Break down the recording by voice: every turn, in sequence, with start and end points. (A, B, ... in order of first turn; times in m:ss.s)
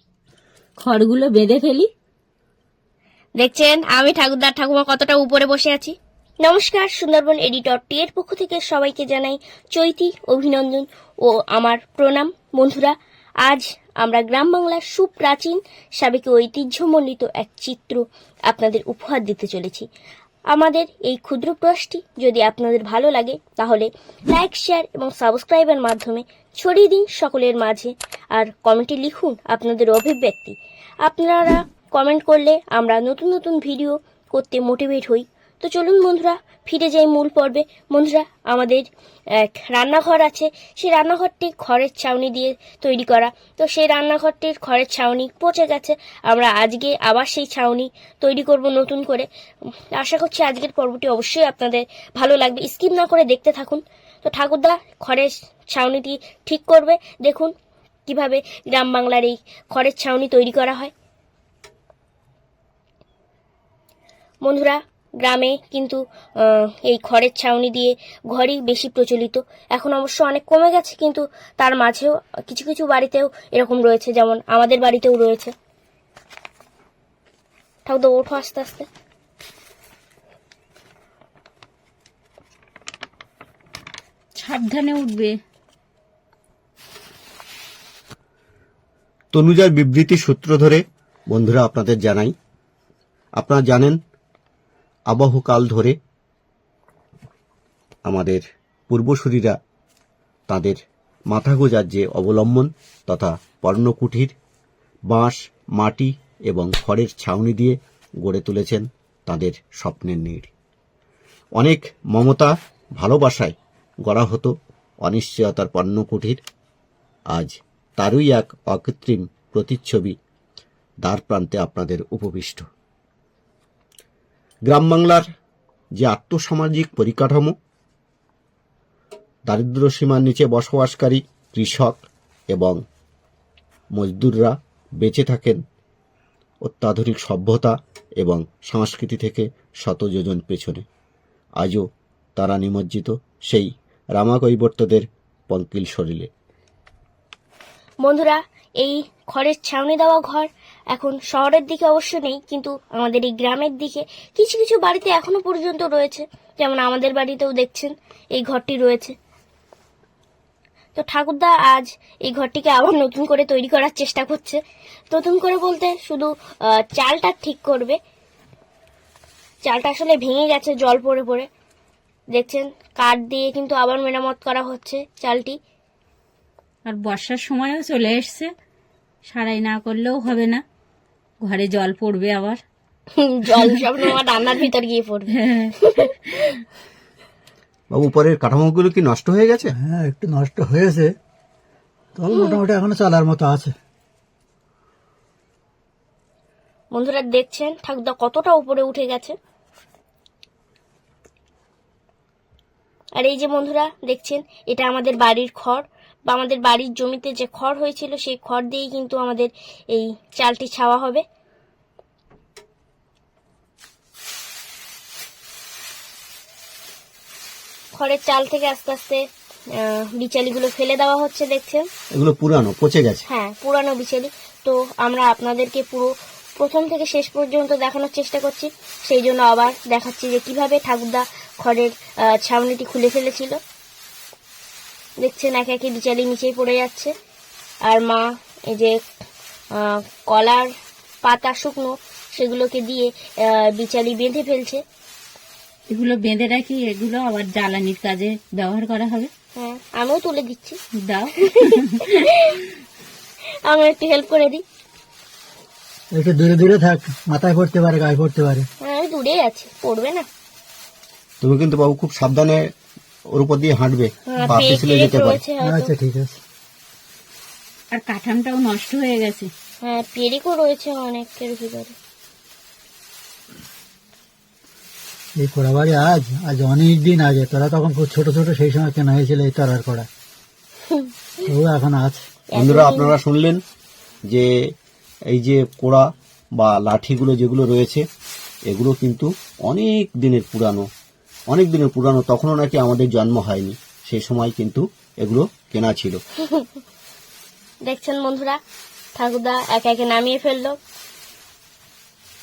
0:00.8-0:01.9 A
0:03.4-0:19.9 B
0:20.5-0:49.3 B
0:49.9-0:57.5 B
0:58.1-1:00.9 B
1:04.4-1:15.5 B
1:17.9-1:18.9 B
1:24.4-1:25.4 A
1:29.3-1:32.3 C
1:33.4-1:34.0 C
1:35.1-1:36.0 C
1:38.1-1:39.6 C
1:40.5-1:40.8 C
1:41.3-1:44.3 C
1:45.1-1:50.5 C
1:51.6-1:56.4 C
1:57.3-2:00.2 C
2:01.0-2:02.7 C
2:04.7-2:05.3 C
2:06.0-2:07.5 C
2:09.5-2:12.8 C
2:13.9-2:15.6 C
2:16.6-2:20.8 C
2:21.6-2:21.8 C
2:22.4-2:26.3 C
2:28.0-2:39.2 B
2:41.0-2:44.6 B
2:45.1-2:48.0 B
2:49.6-2:51.5 B
2:52.3-2:55.6 B
2:56.9-2:58.5 A
2:59.3-3:00.6 A
3:01.4-3:02.6 A
3:03.1-3:06.1 B
3:03.5-3:03.8 A
3:05.3-3:06.6 A
3:07.9-3:09.7 C
3:09.8-3:11.1 D
3:12.2-3:13.8 D
3:12.3-3:12.6 B
3:16.9-3:19.4 B
3:23.2-3:31.2 B
3:38.0-3:39.2 B
3:39.8-3:41.9 B
3:42.2-3:43.2 C
3:43.3-3:53.6 B
3:55.2-3:57.1 B
3:57.9-3:59.0 B
3:59.8-4:00.7 B
4:01.2-4:04.8 B
4:05.9-4:09.3 A
4:09.6-4:10.8 B
4:11.0-4:12.2 A
4:11.4-4:12.6 B
4:13.6-4:14.6 B
4:16.1-4:18.7 D
4:18.8-4:20.3 B
4:21.4-4:22.7 C
4:23.3-4:25.4 C
4:24.3-4:25.9 B
4:25.6-4:26.4 D
4:27.9-4:29.5 A
4:29.8-4:32.0 B
4:35.4-4:40.1 D
4:41.4-4:42.2 D
4:42.5-4:43.2 B
4:42.6-4:43.6 C
4:45.3-4:48.0 C
4:48.7-4:50.9 C
4:51.5-4:56.2 C
4:57.9-4:58.6 B
4:59.2-5:00.8 B